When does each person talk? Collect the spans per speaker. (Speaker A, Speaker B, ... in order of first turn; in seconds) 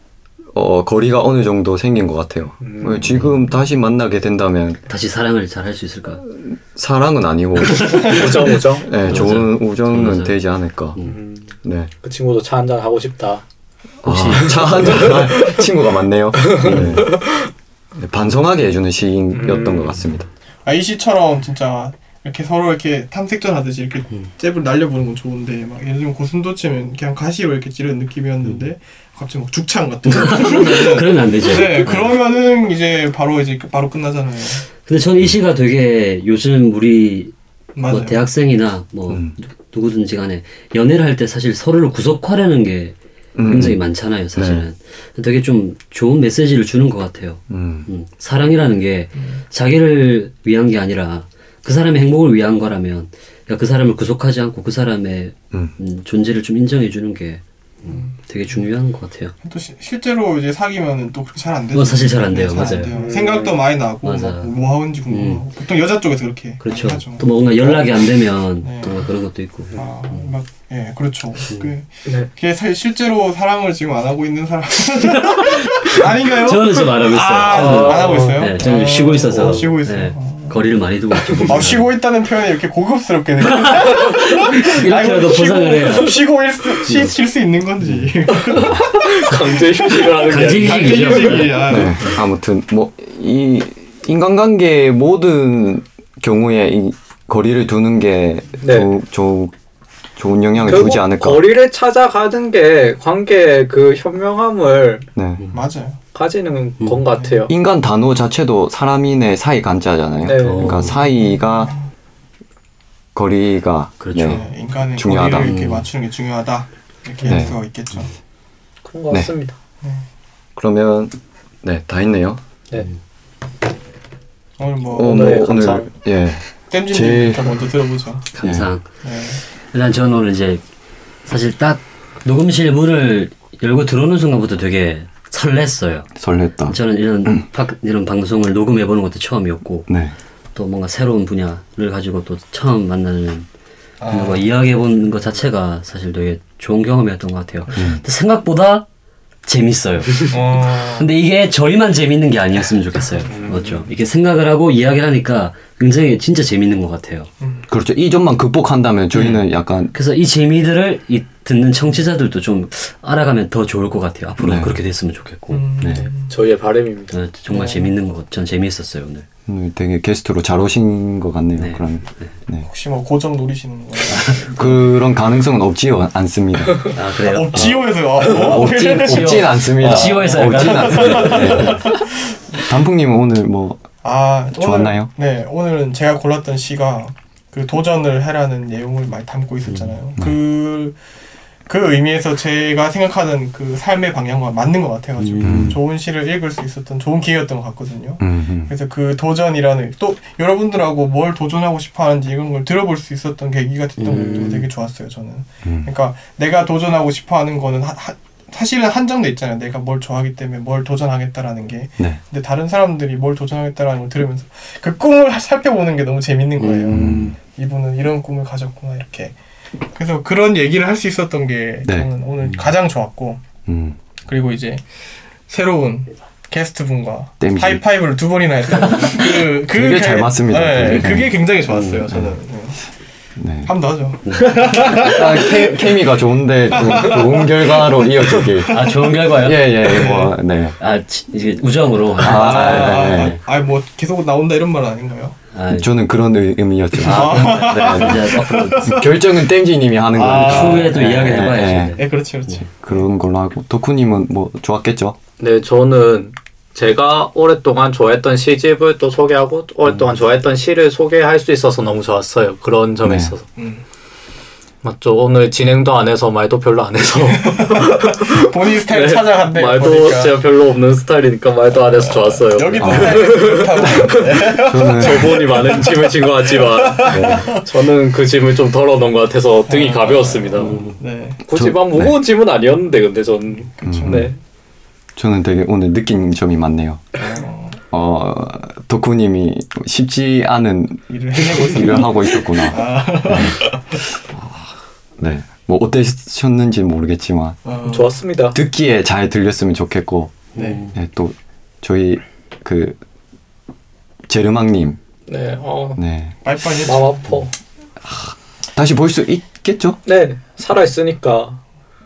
Speaker A: 0.5-4.8, 6.3-11.0, 11.6-11.9, 14.0-17.2, 18.0-20.3, 39.1-39.4, 43.4-43.8, 44.4-44.6, 47.5-47.9, 91.6-99.5, 100.2-101.5, 105.2-105.4, 107.5-111.8, 113.1-115.6, 117.3-117.5, 120.6-122.4, 125.0-127.6, 128.4-128.7, 136.2-137.4, 139.9-140.1, 147.7-148.0, 157.7-159.9, 164.4-164.8, 165.8-166.1, 169.5-172.7, 174.5-176.9, 178.3-182.0, 182.7-183.8, 184.5-185.1, 195.4-195.8, 198.2-198.7, 205.6-205.9, 216.9-217.3, 223.7-224.0, 227.4-227.8, 229.4-231.4, 232.1-232.4, 233.4-233.7, 234.9-240.8, 242.2-243.4, 245.7-252.0, 252.6-255.2, 263.0-263.4, 272.8-273.2, 273.9-275.6, 277.1-277.6, 281.6-282.2, 283.8-284.3, 285.2-287.0, 287.9-293.6, 295.2-297.6, 298.5-303.0, 304.3-305.0, 306.0-306.4, 308.0-310.0
Speaker B: 2.6-3.1, 7.7-9.4, 11.0-13.4, 14.3-15.7, 16.3-17.5, 19.3-20.0, 62.9-63.7, 77.4-79.0, 88.3-91.6, 98.6-98.9, 100.6-105.1, 106.1-107.5, 110.2-110.9, 118.8-119.5, 124.9-125.9, 153.3-153.8, 165.9-167.2, 204.1-204.7, 255.4-263.4, 264.8-280.8, 281.4-284.4, 297.9-298.6, 305.3-306.0, 306.7-307.5, 310.1-311.6
Speaker C: 4.9-6.2, 9.1-10.4, 14.0-15.1, 16.6-17.1, 30.1-32.1, 34.9-59.4, 61.7-63.0, 64.0-64.5, 65.1-65.5, 66.6-70.3, 75.2-82.0, 83.4-86.2, 86.8-87.2, 87.8-88.8, 90.2-92.2, 110.4-111.0, 114.0-114.4, 115.4-115.9, 117.2-117.5, 128.3-128.9, 129.7-130.6, 131.3-136.1, 136.7-139.9, 140.5-143.5, 144.1-148.9, 149.4-157.3, 159.1-159.4, 159.9-165.7, 167.1-169.3, 171.6-172.3, 174.1-174.6, 176.9-181.9, 189.7-189.9, 195.2-195.8, 204.0-204.6, 216.6-217.4, 230.8-232.0, 234.2-234.8, 238.7-240.1, 240.8-243.4, 245.5-245.9, 247.0-249.1, 250.3-252.6, 272.8-273.2, 280.6-280.9, 300.6-300.9
Speaker D: 20.6-34.7, 37.8-38.2, 57.9-58.1, 59.4-69.1, 69.8-80.6, 81.4-92.2, 105.5-106.0, 114.2-118.1, 124.6-125.7, 126.7-128.3, 129.0-129.4, 144.0-144.5, 150.3-151.1, 157.4-157.7, 165.5-166.3, 167.5-167.9, 172.6-174.7, 177.2-182.1, 184.0-190.9, 191.7-219.3, 219.9-223.4, 224.3-224.8, 225.5-232.8, 233.6-236.0, 236.7-239.1, 239.9-240.3, 242.2-245.4, 247.0-249.1, 250.1-250.9, 251.9-253.1, 263.6-263.8, 267.3-270.5, 271.9-277.6, 279.7-281.4, 283.8-284.3, 287.2-287.8, 291.1-294.1, 297.6-298.1, 300.6-300.8, 306.4-307.3